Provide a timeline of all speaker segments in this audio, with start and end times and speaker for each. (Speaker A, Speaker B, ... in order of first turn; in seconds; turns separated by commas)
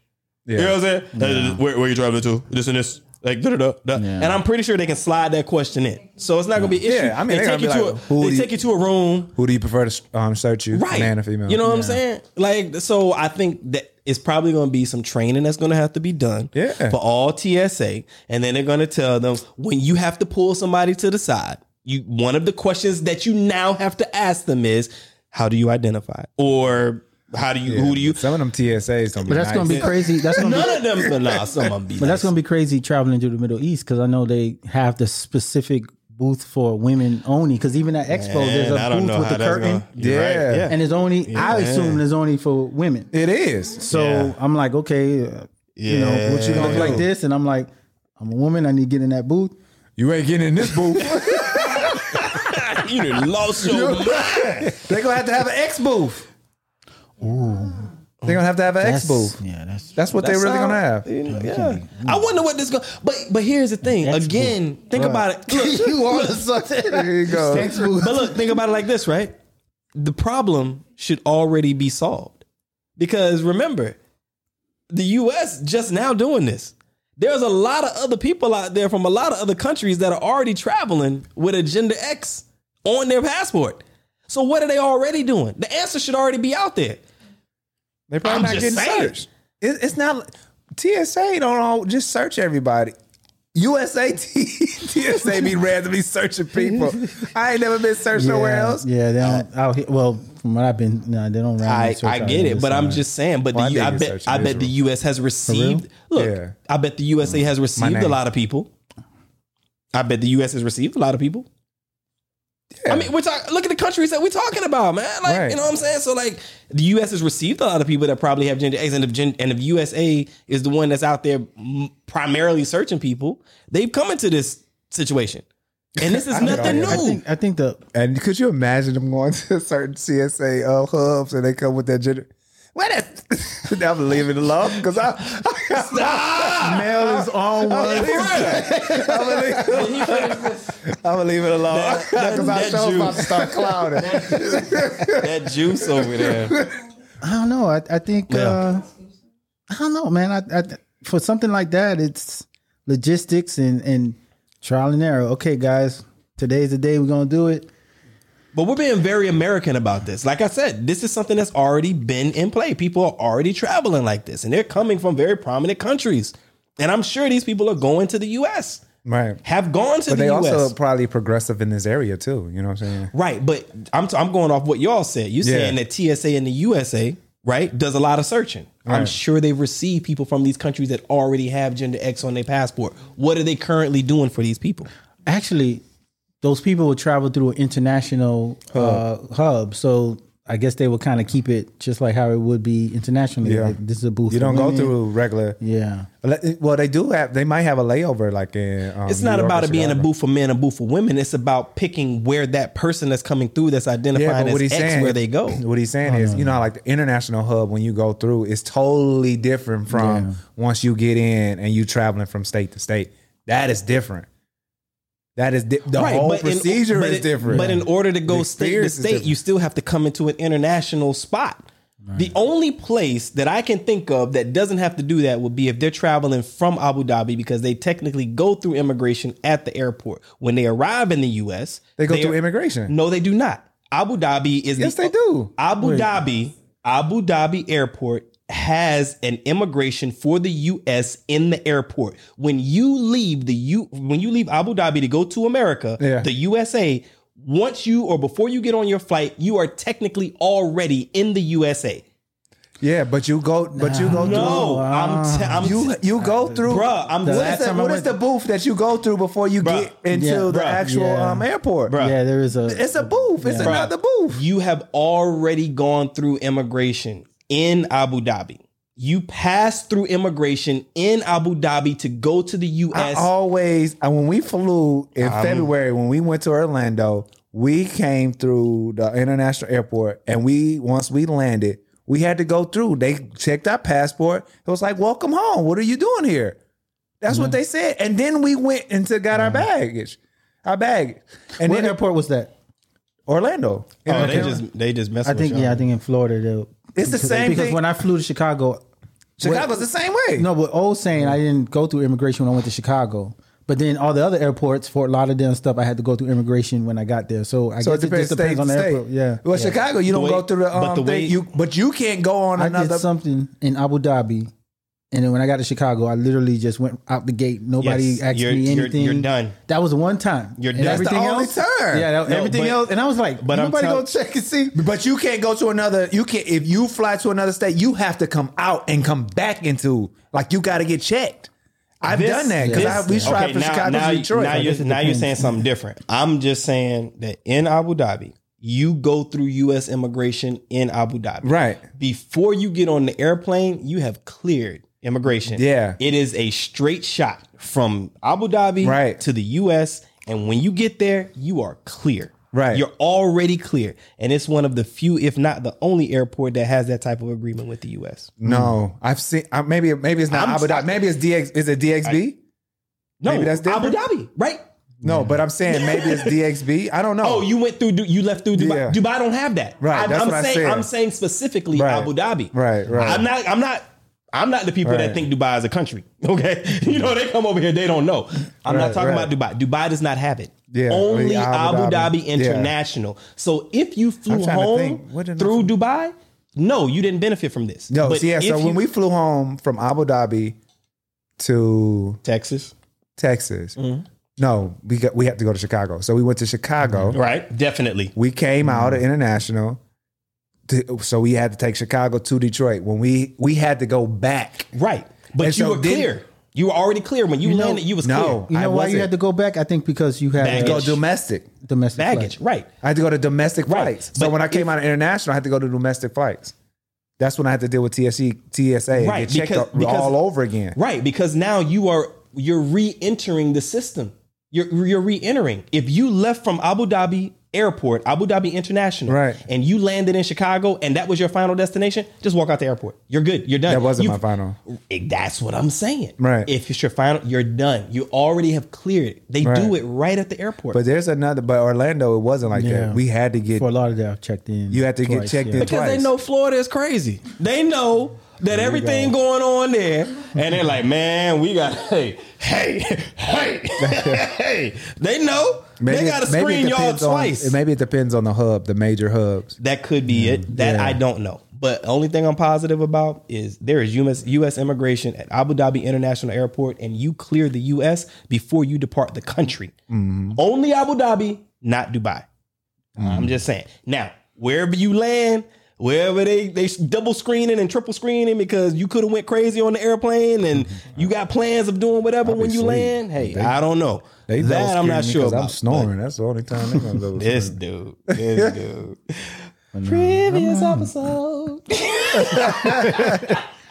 Speaker A: 0.5-0.8, Speaker B: 0.6-9.3, Speaker C: 1.1-1.6, Speaker C: 4.0-4.4, Speaker A: 6.7-8.5, Speaker A: 9.3-11.6, Speaker B: 10.7-28.2, Speaker C: 11.6-12.0, Speaker A: 16.5-16.9, Speaker A: 27.6-31.2, Speaker C: 29.2-30.8, Speaker B: 29.7-32.3, Speaker C: 32.0-39.9, Speaker B: 38.1-42.0, Speaker A: 40.0-40.7, Speaker C: 40.7-43.1, Speaker A: 43.1-43.9, Speaker C: 43.8-49.5, Speaker B: 43.9-44.4, Speaker B: 45.8-47.0, Speaker A: 46.5-47.1, Speaker A: 50.0-52.4, Speaker B: 51.0-54.8, Speaker A: 53.6-56.3, Speaker C: 57.2-57.9, Speaker A: 58.2-59.4, Speaker C: 58.8-59.9, Speaker A: 60.0-61.0, Speaker B: 60.2-66.7, Speaker C: 61.3-62.2, Speaker C: 64.0-68.5, Speaker A: 66.8-67.9, Speaker B: 67.5-69.3, Speaker B: 70.0-72.4, Speaker B: 73.0-74.0, Speaker B: 74.9-87.0, Speaker A: 88.1-92.9, Speaker B: 88.2-89.1, Speaker A: 93.5-98.9, Speaker C: 96.7-96.9, Speaker C: 98.1-103.0, Speaker B: 101.6-108.7, Speaker A: 103.5-104.7, Speaker C: 105.5-105.9, Speaker A: 106.1-106.5, Speaker A: 107.8-108.2, Speaker B: 109.9-111.5, Speaker A: 112.8-113.1, Speaker B: 112.9-125.5, Speaker A: 115.2-115.6, Speaker B: 126.0-127.2, Speaker A: 126.0-127.0, Speaker C: 126.4-127.8, Speaker A: 127.9-145.3, Speaker B: 135.7-136.9, Speaker C: 136.6-139.7, Speaker B: 137.8-139.1, Speaker B: 139.7-140.8, Speaker B: 141.7-146.6, Speaker A: 146.0-146.7, Speaker C: 147.2-148.9, Speaker B: 148.3-148.6, Speaker C: 149.7-157.7, Speaker B: 158.5-168.8, Speaker A: 169.0-169.4, Speaker B: 169.4-170.7, Speaker A: 170.1-173.1, Speaker B: 173.1-184.9, Speaker A: 175.4-175.8, Speaker A: 178.9-179.1, Speaker C: 185.2-185.8, Speaker C: 186.4-195.0, Speaker A: 188.7-189.0, Speaker A: 193.4-193.8, Speaker A: 194.3-195.6, Speaker C: 195.6-196.1, Speaker A: 196.2-200.1, Speaker B: 199.1-205.6, Speaker A: 204.1-214.3, Speaker C: 206.0-206.6, Speaker C: 209.9-210.4, Speaker A: 215.4-219.3, Speaker B: 215.9-252.0, Speaker C: 217.4-217.8, Speaker A: 232.0-232.9, Speaker A: 234.8-235.5, Speaker C: 235.8-236.1, Speaker A: 246.0-246.3, Speaker A: 252.8-254.7, Speaker C: 253.7-258.1, Speaker B: 254.1-255.9, Speaker A: 255.6-262.0, Speaker B: 256.6-258.1, Speaker B: 259.6-259.9, Speaker C: 260.1-263.8, Speaker B: 260.5-260.8, Speaker B: 261.9-262.1, Speaker A: 262.7-264.4, Speaker B: 263.6-273.3, Speaker A: 272.9-286.6, Speaker B: 275.2-275.7, Speaker A: 287.2-291.9, Speaker C: 287.3-287.6, Speaker C: 289.3-289.6, Speaker C: 291.6-292.5, Speaker A: 293.3-294.6, Speaker B: 294.1-295.9, Speaker C: 294.1-294.6, Speaker C: 295.2-298.8, Speaker A: 296.9-297.8, Speaker C: 299.4-299.7, Speaker A: 299.4-300.5, Speaker C: 300.3-309.8, Speaker A: 307.8-313.1, Speaker B: 310.1-311.4, Speaker C: 312.6-314.5, Speaker C: 315.1-324.7, Speaker B: 317.8-319.5, Speaker B: 320.6-321.1, Speaker A: 320.8-322.2, Speaker B: 322.2-322.8, Speaker B: 323.4-324.1, Speaker A: 324.7-331.5, Speaker A: 332.0-334.8, Speaker B: 332.0-358.3, Speaker C: 332.6-333.4, Speaker C: 334.4-335.6, Speaker A: 341.4-341.8, Speaker A: 345.5-346.0, Speaker A: 348.8-349.2, Speaker A: 352.5-352.8, Speaker A: 358.4-362.4, Speaker C: 358.4-358.7, Speaker B: 360.3-361.0, Speaker B: 363.2-364.6, Speaker A: 363.2-364.0, Speaker A: 365.0-367.5, Speaker C: 365.0-365.4, Speaker B: 365.7-366.4, Speaker B: 367.2-388.8, Speaker A: 368.5-369.0, Speaker A: 369.8-370.9, Speaker A: 371.7-373.3, Speaker A: 374.8-375.2, Speaker A: 378.7-379.3, Speaker A: 380.7-382.7, Speaker A: 384.3-385.7, Speaker A: 387.9-390.6, Speaker A: 391.4-392.2, Speaker B: 392.2-392.7, Speaker A: 393.2-393.8, Speaker B: 393.8-394.0, Speaker A: 394.4-397.2, Speaker B: 397.1-398.1, Speaker A: 398.1-399.8, Speaker A: 400.7-404.7, Speaker B: 404.7-408.5, Speaker A: 405.4-406.1, Speaker C: 407.4-407.8, Speaker A: 408.0-409.1, Speaker C: 408.5-410.9, Speaker B: 410.4-411.0, Speaker A: 410.5-411.5, Speaker C: 411.6-412.3, Speaker B: 411.9-412.7, Speaker A: 412.8-416.5, Speaker B: 413.7-414.7, Speaker A: 417.2-420.8, Speaker B: 419.0-420.2, Speaker B: 420.7-440.8, Speaker A: 429.1-429.4, Speaker A: 433.7-434.6, Speaker A: 436.2-436.5, Speaker A: 439.4-439.7, Speaker A: 440.7-443.6, Speaker C: 442.5-443.0, Speaker C: 443.5-445.7, Speaker A: 444.7-446.1, Speaker B: 445.6-457.6, Speaker A: 448.5-449.1, Speaker A: 453.8-454.3, Speaker A: 455.8-459.6, Speaker B: 459.6-469.7, Speaker C: 460.2-461.0, Speaker A: 469.9-470.4, Speaker B: 470.3-472.2, Speaker A: 473.0-473.4, Speaker B: 473.0-485.9, Speaker A: 482.2-483.6, Speaker A: 484.3-487.6, Speaker B: 487.1-493.4, Speaker A: 488.1-488.5, Speaker C: 489.7-490.9, Speaker A: 492.1-493.3, Speaker C: 492.5-493.3